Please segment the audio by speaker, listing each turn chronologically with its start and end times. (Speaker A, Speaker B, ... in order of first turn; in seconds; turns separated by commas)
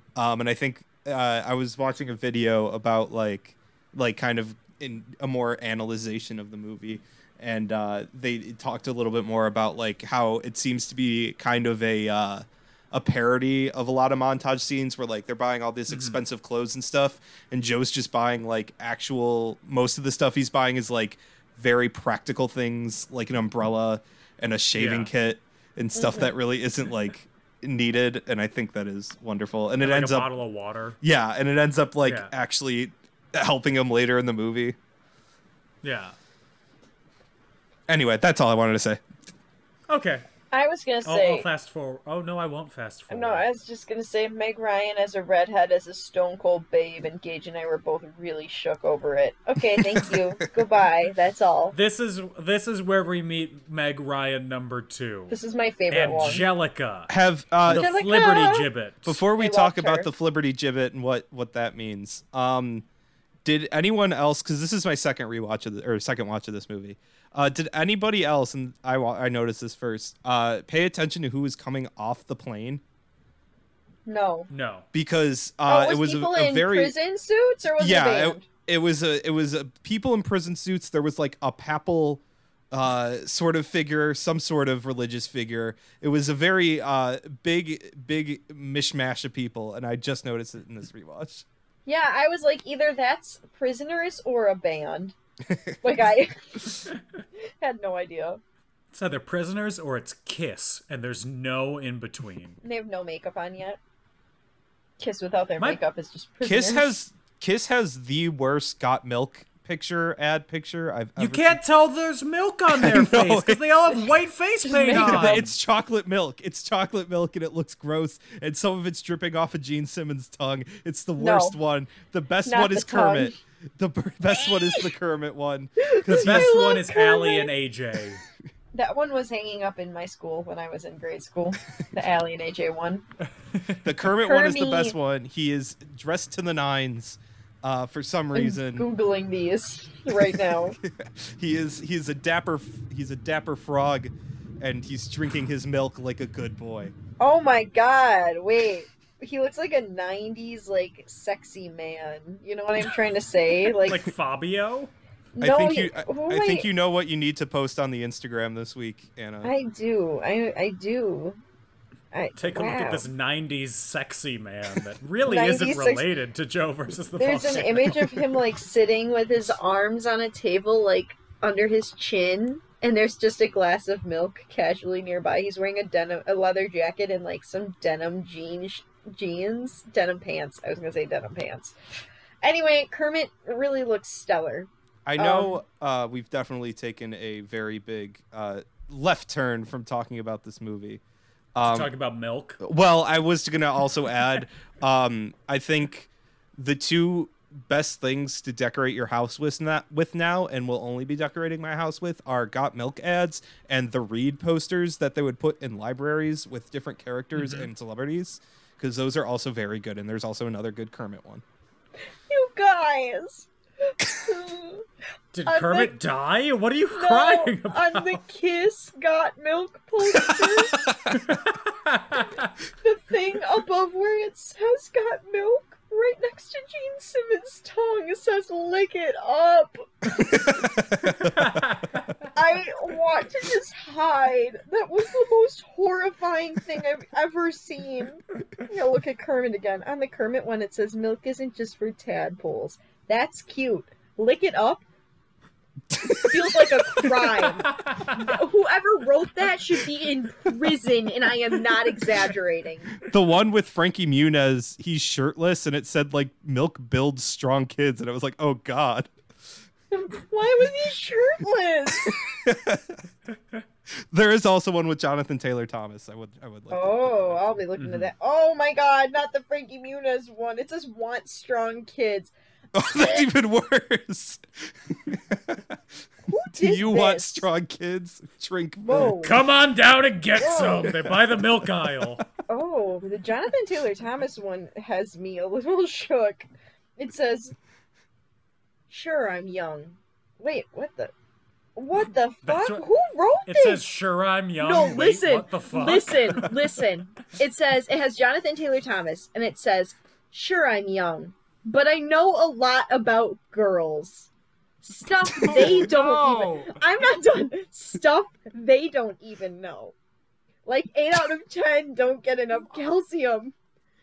Speaker A: 0.1-30.3, Speaker B: 15.9-16.2, Speaker B: 24.7-25.1, Speaker C: 25.9-26.3, Speaker B: 29.8-31.0, Speaker A: 31.0-34.8, Speaker B: 32.0-32.3, Speaker B: 35.8-36.1, Speaker A: 37.9-39.0, Speaker B: 39.9-40.2, Speaker C: 40.5-41.5, Speaker B: 41.0-43.5, Speaker C: 43.1-51.8, Speaker A: 49.7-50.2, Speaker B: 51.7-55.4, Speaker C: 55.3-56.4, Speaker B: 55.9-57.1, Speaker A: 57.1-57.9, Speaker C: 57.7-58.7, Speaker B: 57.7-59.2, Speaker A: 59.0-62.8, Speaker C: 59.4-60.1, Speaker A: 63.4-72.8, Speaker C: 74.0-74.5, Speaker B: 74.5-74.8, Speaker A: 74.9-76.9, Speaker C: 75.7-78.5, Speaker A: 77.8-91.4, Speaker C: 91.8-95.1, Speaker C: 95.8-96.8, Speaker C: 97.6-98.4, Speaker B: 98.9-102.6, Speaker C: 102.6-103.8, Speaker C: 105.0-106.9, Speaker A: 106.4-111.6, Speaker B: 111.2-115.5, Speaker A: 112.7-113.7, Speaker C: 114.6-115.4, Speaker A: 114.8-126.6, Speaker C: 121.2-121.6, Speaker C: 122.5-123.3, Speaker C: 124.4-124.9, Speaker C: 125.8-127.5, Speaker B: 126.1-128.2, Speaker C: 128.7-133.0, Speaker B: 133.5-133.8, Speaker A: 133.8-138.8, Speaker C: 134.2-134.9, Speaker C: 138.3-140.8, Speaker A: 140.3-146.9, Speaker C: 147.2-154.0, Speaker B: 153.8-154.9, Speaker C: 155.3-156.7, Speaker A: 155.4-159.5, Speaker C: 159.4-161.4, Speaker C: 162.1-163.1, Speaker B: 162.4-168.2, Speaker C: 165.2-166.1, Speaker C: 167.2-181.7, Speaker C: 182.4-185.6, Speaker A: 185.1-191.0, Speaker A: 191.5-191.9, Speaker B: 191.6-192.6, Speaker A: 192.6-211.4, Speaker B: 207.3-207.7, Speaker C: 212.3-214.8, Speaker B: 215.3-218.2, Speaker C: 215.4-215.9, Speaker C: 216.9-220.8, Speaker B: 221.1-222.5, Speaker C: 222.8-230.5, Speaker A: 231.0-231.3, Speaker B: 231.1-232.1, Speaker C: 232.3-244.8, Speaker A: 245.9-246.4, Speaker C: 246.0-252.9, Speaker B: 247.8-248.2, Speaker A: 253.0-259.1, Speaker C: 259.9-262.2, Speaker A: 262.1-263.0, Speaker A: 264.1-267.6, Speaker C: 266.7-272.3, Speaker B: 267.8-268.1, Speaker A: 272.7-275.8, Speaker C: 272.9-273.2, Speaker C: 276.3-277.5, Speaker A: 276.5-279.2, Speaker C: 278.8-279.4, Speaker B: 279.1-282.2, Speaker C: 280.4-280.9, Speaker C: 282.5-286.4, Speaker C: 287.0-287.5, Speaker C: 288.9-291.1, Speaker C: 291.8-293.8, Speaker B: 292.4-292.8, Speaker B: 293.4-296.6, Speaker C: 294.6-304.3, Speaker C: 304.8-309.9, Speaker B: 305.4-306.8, Speaker C: 310.6-313.5